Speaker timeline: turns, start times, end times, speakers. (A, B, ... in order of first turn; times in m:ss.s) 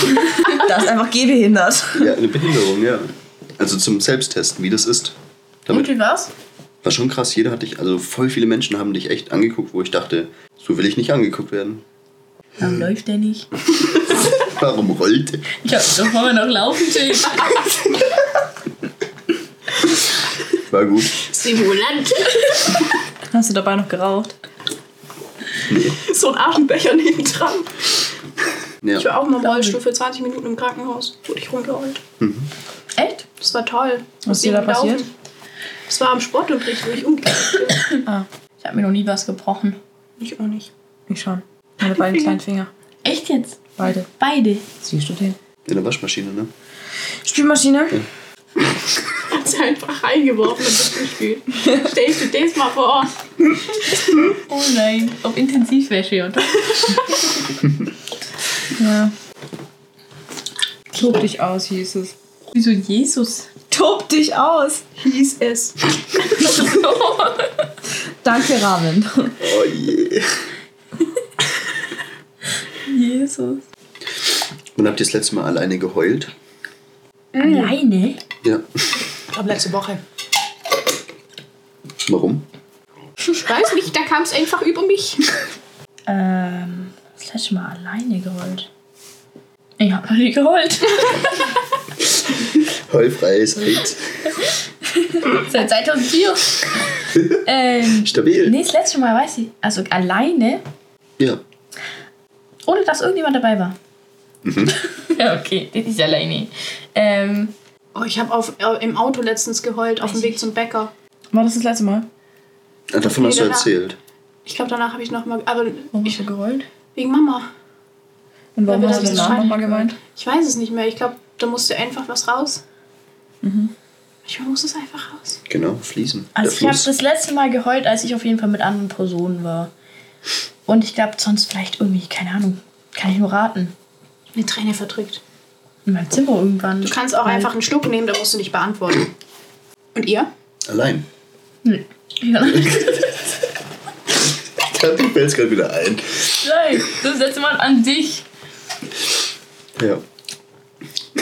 0:00.2-0:02.1 A
0:02.0-0:05.2 B
0:05.7-0:06.3 C
0:06.8-0:11.8 B
0:12.6-0:13.5 C
0:14.3-0:15.4 B
0:15.6-0:17.7 C
0:20.7-0:21.2 B
0:21.3-0:22.4 D
0:23.3-0:24.3 A
0:25.7-0:26.0 B
0:26.0-0:27.9 D
0:28.8-0:29.1 B
0:29.0-0:32.0 D
0:29.4-0:29.8 A
0:32.2-0:32.5 B
0:32.9-0:33.2 C
0:33.4-0:35.1 D
0:34.2-0:35.1 A
0:35.9-0:38.0 D
0:38.6-0:39.8 C
0:40.2-0:40.7 D
0:41.1-0:42.7 A
0:43.0-0:44.6 C
0:43.8-0:44.1 A
0:44.8-0:45.4 A
0:45.6-0:46.5 B
0:47.2-0:48.0 A
0:49.3-0:53.1 D
0:54.5-0:56.6 C
0:58.8-0:59.1 A
1:00.9-1:02.1 A
1:02.5-1:03.5 C
1:03.7-1:05.0 A
1:05.0-1:05.7 D
1:06.3-1:07.6 C
1:08.2-1:09.4 A
1:09.4-1:10.2 B
1:12.9-1:13.6 C
1:14.8-1:16.3 B
1:17.3-1:17.8 D
1:17.4-1:18.2 C
1:18.4-1:19.0 B
1:19.3-1:20.0 D
1:22.0-1:22.4 B
1:23.4-1:25.2 D
1:26.1-1:28.7 C
1:29.8-1:31.5 C
1:32.9-1:34.2 B
1:35.1-1:36.6 C
1:37.4-1:40.6 C
1:38.0-1:38.6 B
1:42.6-1:43.7 C
1:44.4-1:44.8 B
1:45.0-1:47.5 C
1:47.9-1:50.9 D
1:50.0-1:50.4 C
1:51.3-1:52.0 A
1:52.9-1:54.0 B
1:53.0-1:53.7 D
1:54.4-1:56.3 D
1:55.9-1:56.6 C
1:56.9-1:57.5 D
1:58.5-1:59.9 A
1:58.6-2:02.6 D
2:03.4-2:03.7 A
2:04.2-2:05.4 D
2:05.5-2:06.9 B
2:06.4-2:09.7 C
2:10.6-2:13.7 C
2:14.3-2:15.2 D
2:15.8-2:17.5 C
2:16.8-2:19.1 D
2:19.9-2:20.3 D
2:20.7-2:21.0 B
2:21.6-2:23.2 C
2:24.6-2:26.2 B
2:26.4-2:28.2 C
2:29.8-2:30.0 B